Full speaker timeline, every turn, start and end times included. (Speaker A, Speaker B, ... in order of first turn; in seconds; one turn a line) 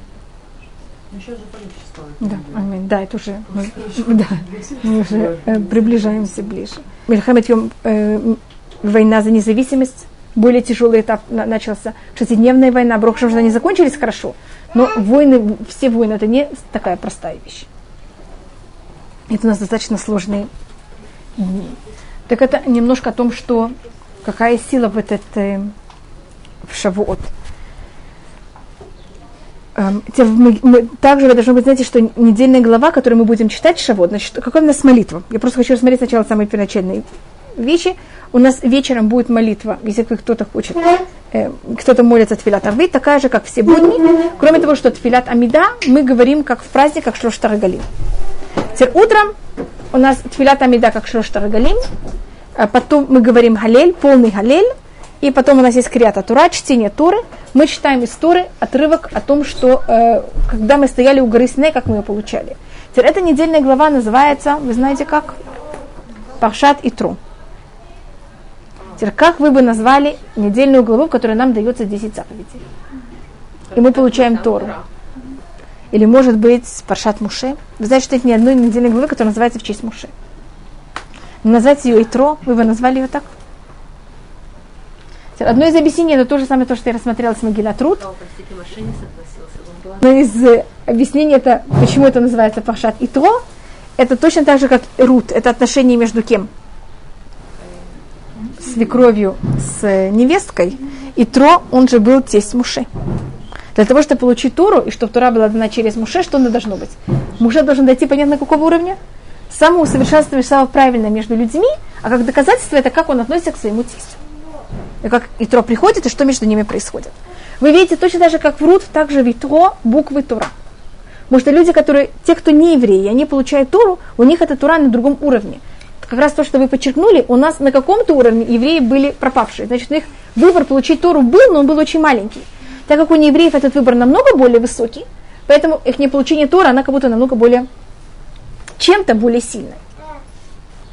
Speaker A: 1.1-2.7
Speaker B: 2.2-17.7
Speaker A: 3.5-6.5
Speaker B: 19.3-20.5
Speaker B: 21.4-21.8
Speaker B: 22.3-25.7
Speaker B: 26.6-27.3
Speaker B: 29.8-37.0
Speaker B: 37.6-47.9
Speaker B: 48.7-49.4
Speaker B: 49.9-51.9
Speaker B: 52.6-54.7
Speaker B: 55.2-65.4
Speaker B: 66.4-67.2
Speaker B: 69.0-72.6
Speaker C: 73.7-74.9
Speaker B: 73.7-74.7
Speaker B: 75.9-80.1
Speaker B: 81.4-83.3
Speaker B: 85.4-88.0
Speaker C: 88.0-90.0
Speaker B: 90.0-93.4
Speaker B: 94.0-96.5
Speaker B: 98.5-102.9
Speaker B: 103.8-109.0
Speaker B: 109.5-114.2
Speaker B: 115.0-120.5
Speaker B: 121.3-137.7
Speaker B: 138.8-139.8